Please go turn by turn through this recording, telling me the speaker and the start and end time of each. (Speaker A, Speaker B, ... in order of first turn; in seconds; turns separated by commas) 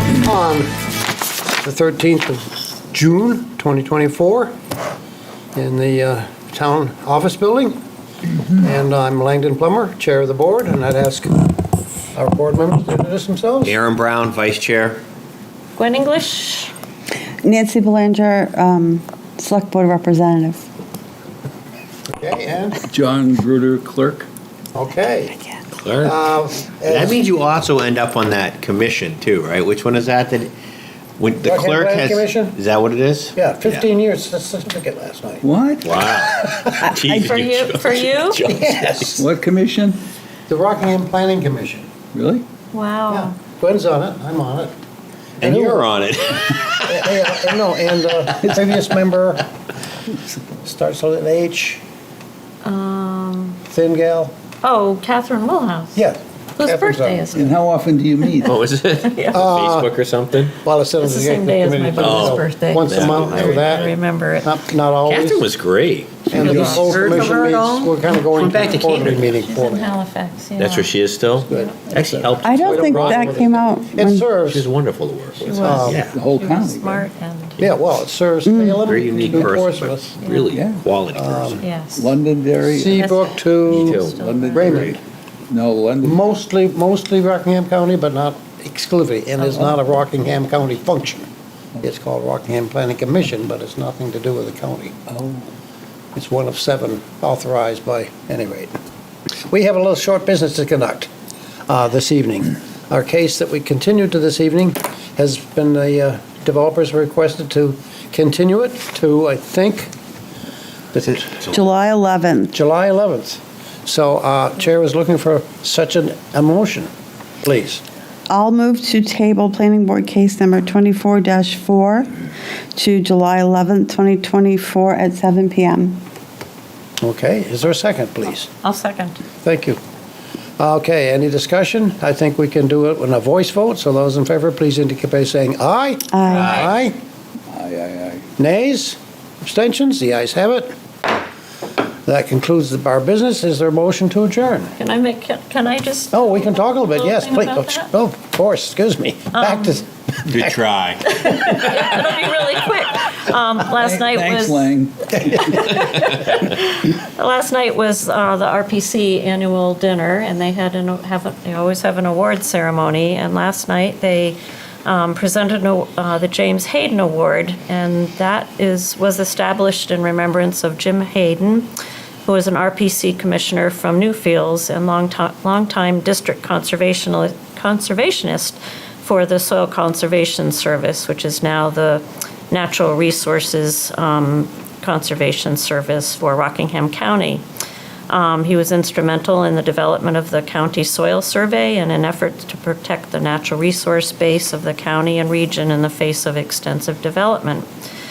Speaker A: 0.2-0.7, Speaker A: 1.5-4.5, Speaker A: 5.5-7.8, Speaker A: 8.6-11.4, Speaker A: 12.1-13.8, Speaker B: 13.6-15.0, Speaker C: 15.8-16.7, Speaker D: 17.4-20.6, Speaker A: 22.1-22.8, Speaker E: 22.9-24.3, Speaker A: 24.7-25.4, Speaker B: 25.8-26.1, Speaker A: 26.0-27.4, Speaker B: 26.9-30.5, Speaker B: 31.2-33.9, Speaker A: 31.4-32.6, Speaker A: 33.3-35.5, Speaker E: 35.4-36.1, Speaker B: 35.8-39.2, Speaker A: 36.1-36.9, Speaker C: 37.0-38.4, Speaker A: 38.4-39.3, Speaker E: 39.1-40.0, Speaker A: 40.5-41.9, Speaker E: 42.1-42.4, Speaker C: 42.7-43.3, Speaker A: 43.1-44.7, Speaker B: 45.4-47.6, Speaker A: 45.4-45.9, Speaker A: 46.8-49.5, Speaker A: 50.6-51.8, Speaker C: 52.6-53.6, Speaker A: 53.7-54.3, Speaker C: 54.6-56.0, Speaker A: 55.9-57.2, Speaker C: 56.6-57.5, Speaker E: 57.3-58.6, Speaker C: 58.2-59.4, Speaker B: 58.4-60.5, Speaker A: 59.3-59.9, Speaker A: 60.6-65.5, Speaker C: 61.0-64.5, Speaker B: 62.0-63.7, Speaker B: 65.0-69.4, Speaker A: 66.3-69.9, Speaker E: 66.4-66.9, Speaker C: 66.4-67.5, Speaker C: 68.5-70.9, Speaker B: 70.6-73.4, Speaker A: 71.5-71.8, Speaker E: 71.5-72.3, Speaker D: 72.4-74.3, Speaker A: 72.5-74.7, Speaker B: 74.5-76.1, Speaker C: 75.4-77.6, Speaker A: 75.5-76.0, Speaker E: 75.9-77.1, Speaker A: 77.6-80.2, Speaker D: 78.5-78.8, Speaker B: 78.8-81.6, Speaker E: 79.1-79.5, Speaker C: 80.2-80.5, Speaker E: 80.5-80.8, Speaker A: 81.1-81.6, Speaker C: 81.6-82.1, Speaker E: 81.9-83.0, Speaker A: 82.6-84.0, Speaker C: 82.9-84.9, Speaker E: 83.7-86.2, Speaker B: 83.7-84.2, Speaker A: 84.5-85.0, Speaker A: 86.0-91.3, Speaker E: 89.4-89.8, Speaker A: 91.8-95.0, Speaker E: 95.1-95.5, Speaker A: 96.1-98.8, Speaker A: 99.5-101.1, Speaker A: 101.7-109.9, Speaker A: 110.9-111.5, Speaker D: 111.5-112.5, Speaker A: 112.5-116.9, Speaker A: 117.4-117.8, Speaker D: 118.3-122.1, Speaker D: 122.8-126.0, Speaker A: 127.0-128.5, Speaker C: 128.6-129.2, Speaker A: 129.4-129.8, Speaker A: 130.6-136.9, Speaker D: 136.1-136.7, Speaker C: 136.3-136.7, Speaker B: 136.3-136.7, Speaker E: 137.5-138.3, Speaker A: 138.4-140.7, Speaker A: 142.1-144.7, Speaker C: 144.8-147.9, Speaker A: 146.1-150.6, Speaker C: 149.3-149.8, Speaker B: 150.3-151.7, Speaker C: 151.0-154.7, Speaker E: 153.8-155.8, Speaker C: 155.3-171.7, Speaker C: 172.2-187.4, Speaker C: 188.1-197.7